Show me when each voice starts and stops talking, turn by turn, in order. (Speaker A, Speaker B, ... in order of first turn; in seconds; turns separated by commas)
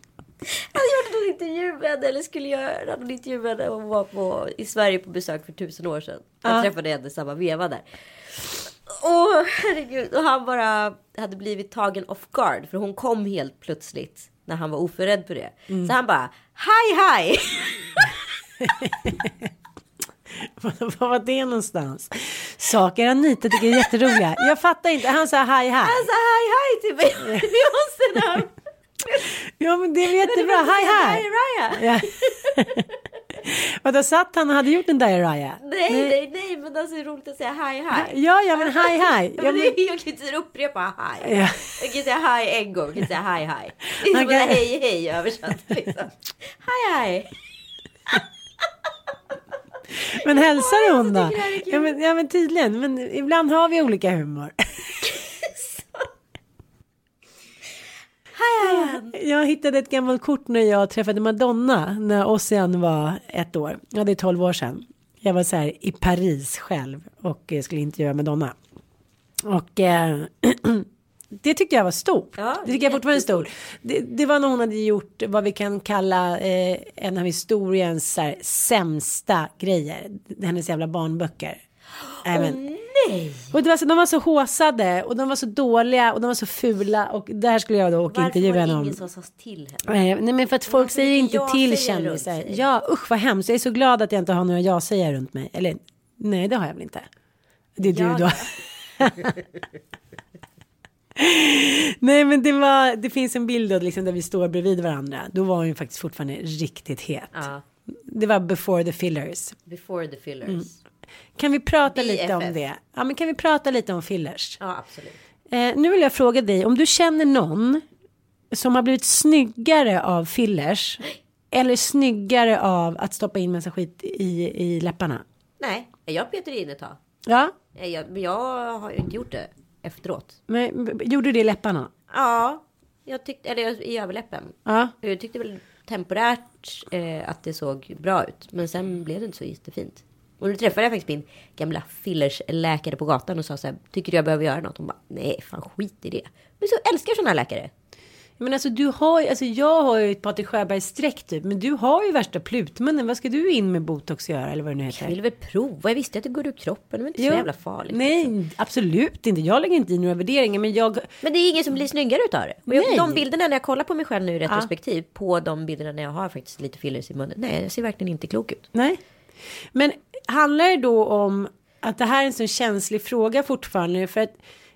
Speaker A: 0.5-7.8, Speaker B: 6.4-6.7, Speaker A: 8.8-18.2, Speaker B: 18.6-19.5, Speaker B: 20.3-26.0, Speaker A: 25.8-28.5, Speaker B: 27.2-27.5, Speaker B: 28.1-28.4, Speaker B: 29.2-31.2, Speaker A: 30.2-32.8, Speaker B: 31.7-32.8, Speaker B: 33.4-36.1, Speaker A: 35.6-47.3, Speaker B: 37.9-39.8, Speaker B: 41.2-41.8, Speaker B: 44.0-44.7, Speaker B: 50.1-54.6, Speaker A: 50.2-51.9, Speaker A: 55.5-56.0, Speaker A: 58.4-59.1, Speaker B: 58.6-68.6, Speaker B: 69.4-81.6, Speaker A: 72.4-73.2, Speaker A: 82.2-83.5, Speaker B: 82.2-82.6, Speaker B: 83.5-89.0, Speaker A: 88.1-89.9, Speaker B: 89.8-97.1, Speaker A: 90.7-92.6, Speaker B: 97.8-99.4, Speaker A: 97.8-98.5, Speaker B: 101.1-109.6, Speaker A: 107.3-107.6, Speaker A: 109.7-110.8, Speaker B: 111.4-114.6, Speaker A: 111.9-112.6, Speaker A: 114.6-115.2, Speaker B: 115.5-117.8, Speaker B: 118.5-125.2, Speaker A: 125.6-127.0, Speaker B: 127.2-127.5, Speaker A: 127.7-130.4, Speaker B: 130.5-131.9, Speaker A: 132.1-147.7, Speaker B: 134.7-134.9, Speaker B: 148.4-155.1, Speaker A: 154.9-158.3, Speaker B: 157.2-161.1, Speaker A: 161.2-168.6, Speaker B: 162.7-163.2, Speaker B: 168.7-169.0, Speaker B: 169.7-174.4